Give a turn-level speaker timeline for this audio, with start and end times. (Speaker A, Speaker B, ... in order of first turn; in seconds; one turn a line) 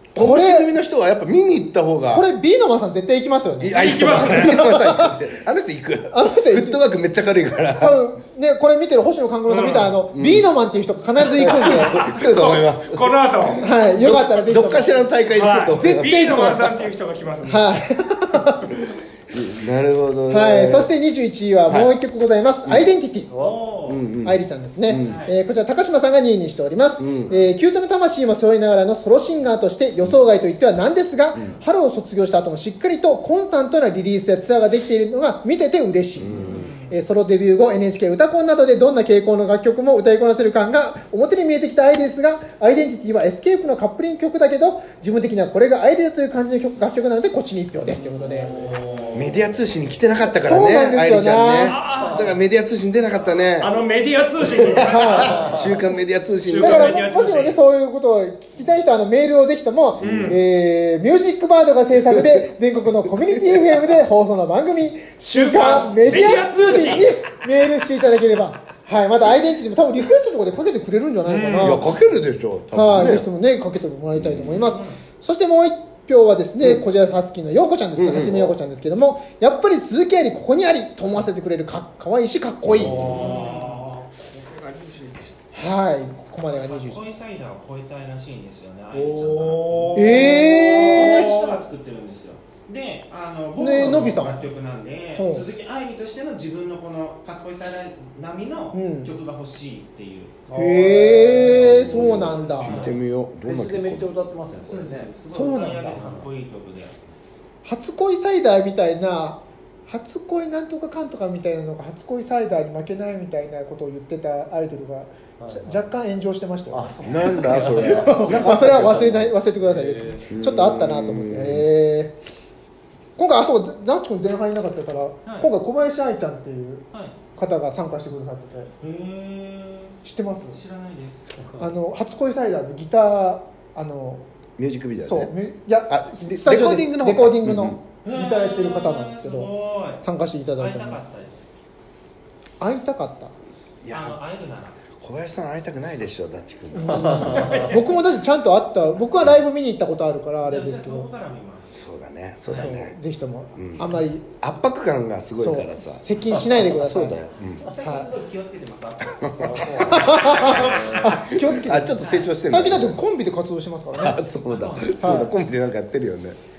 Speaker A: 0.1-2.2
Speaker B: 0.1-0.7
Speaker B: 2.1-5.1
Speaker A: 3.6-8.0
Speaker C: 3.7-4.7
Speaker B: 6.1-6.8
Speaker B: 7.8-12.0
Speaker C: 9.5-10.0
Speaker A: 10.1-10.5
Speaker C: 11.3-13.8
Speaker A: 11.4-13.1
Speaker B: 13.6-15.1
Speaker A: 13.9-16.8
Speaker C: 15.3-17.7
Speaker B: 17.4-18.7
Speaker A: 19.3-20.9
Speaker B: 20.3-23.3
Speaker A: 21.6-21.9
Speaker A: 22.6-22.9
Speaker D: 23.3-23.9
Speaker E: 23.4-23.9
Speaker A: 23.9-25.2
Speaker B: 24.2-48.7
Speaker E: 25.0-25.3
Speaker A: 27.0-27.4
Speaker A: 36.2-36.7
Speaker E: 36.4-37.0
Speaker E: 47.9-49.5
Speaker D: 48.5-49.1
Speaker A: 49.1-53.8
Speaker B: 50.2-51.8
Speaker C: 51.6-52.3
Speaker C: 53.6-55.4
Speaker A: 54.5-57.0
Speaker B: 54.8-55.6
Speaker C: 56.5-57.6
Speaker B: 56.6-71.9
Speaker A: 60.0-60.4
Speaker C: 60.0-60.4
Speaker A: 62.0-62.5
Speaker A: 63.1-63.9
Speaker C: 65.3-67.2
Speaker C: 71.2-71.8
Speaker A: 71.6-73.3
Speaker B: 72.7-83.2
Speaker A: 74.1-74.7
Speaker A: 78.0-78.6
Speaker A: 82.7-83.4
Speaker E: 82.9-84.0
Speaker C: 83.2-85.3
Speaker B: 85.5-87.0
Speaker E: 86.4-100.4
Speaker D: 88.9-89.9
Speaker C: 89.2-91.5
Speaker B: 89.9-91.4
Speaker B: 93.6-94.4
Speaker B: 95.2-95.4
Speaker B: 98.7-99.1
Speaker D: 100.5-101.7
Speaker B: 100.5-102.9
Speaker A: 101.4-104.1
Speaker E: 101.5-103.0
Speaker D: 103.4-105.1
Speaker E: 104.7-106.9
Speaker B: 105.3-106.0
Speaker D: 105.9-106.3
Speaker B: 107.6-116.8
Speaker D: 115.4-115.8
Speaker D: 116.7-119.0
Speaker A: 117.0-119.3
Speaker B: 117.4-122.1
Speaker D: 119.6-120.2
Speaker A: 120.3-121.7
Speaker B: 123.2-126.8
Speaker E: 125.2-125.5
Speaker B: 127.4-128.7
Speaker E: 128.8-131.4
Speaker B: 130.0-130.6
Speaker B: 131.6-134.2
Speaker A: 134.6-135.3
Speaker B: 135.0-139.5
Speaker A: 135.9-137.8
Speaker E: 138.0-140.0
Speaker B: 140.0-141.0
Speaker E: 140.6-141.4
Speaker B: 142.6-143.3
Speaker A: 143.8-144.2
Speaker E: 143.9-144.8
Speaker A: 145.0-147.7
Speaker B: 146.7-151.1
Speaker E: 147.1-147.8
Speaker D: 147.2-147.6
Speaker E: 150.4-151.8
Speaker A: 151.7-152.9
Speaker B: 152.5-154.3
Speaker A: 153.6-157.7
Speaker B: 155.4-157.2
Speaker E: 157.6-161.0
Speaker B: 157.8-158.1
Speaker A: 159.1-163.0
Speaker D: 159.4-160.3
Speaker B: 159.8-164.2
Speaker A: 163.9-166.4
Speaker E: 164.4-165.2
Speaker B: 165.0-165.3